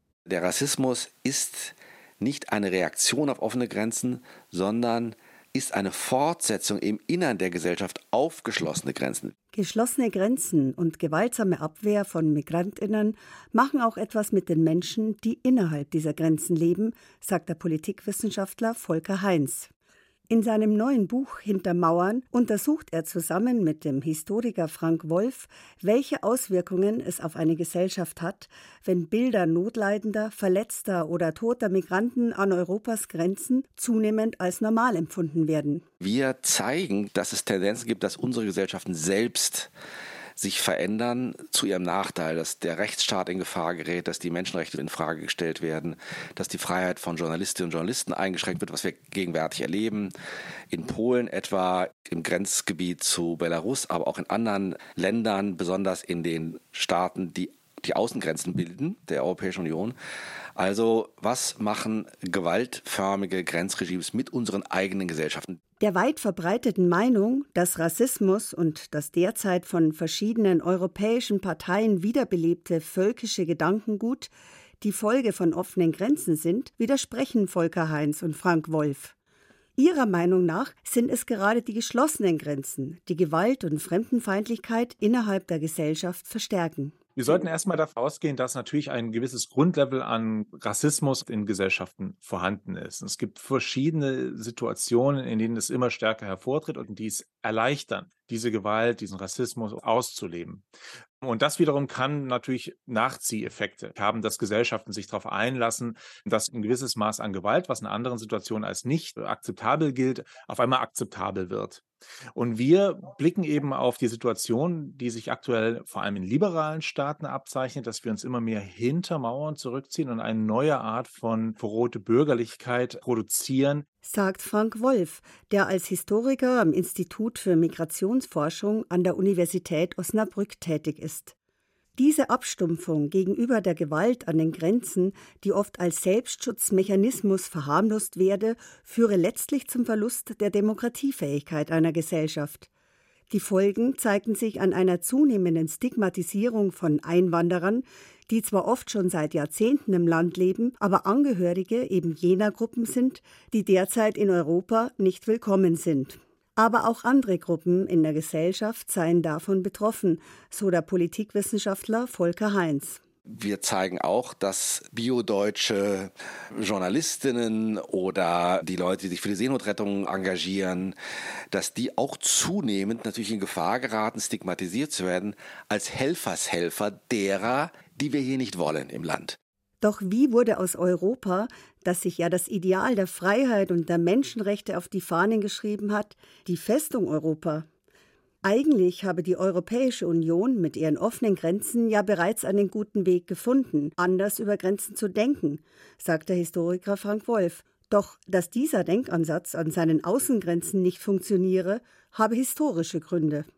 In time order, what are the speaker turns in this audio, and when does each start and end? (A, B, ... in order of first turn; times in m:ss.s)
0:00.3-0:09.3 A
0:09.5-0:19.7 B
0:20.3-0:35.8 B
0:36.0-0:39.7 A
0:40.4-0:50.1 A
0:50.7-1:00.0 A
1:00.6-1:05.6 A
1:05.8-1:19.1 B
1:19.8-1:27.0 B
1:27.2-1:40.7 C
1:41.2-1:51.8 C
1:52.3-2:03.8 C
2:04.0-2:11.3 B
2:12.0-2:22.7 B
2:23.3-2:43.0 B
2:43.2-2:50.9 A
2:51.5-2:59.4 A
2:59.8-3:07.6 B
3:08.4-3:23.5 B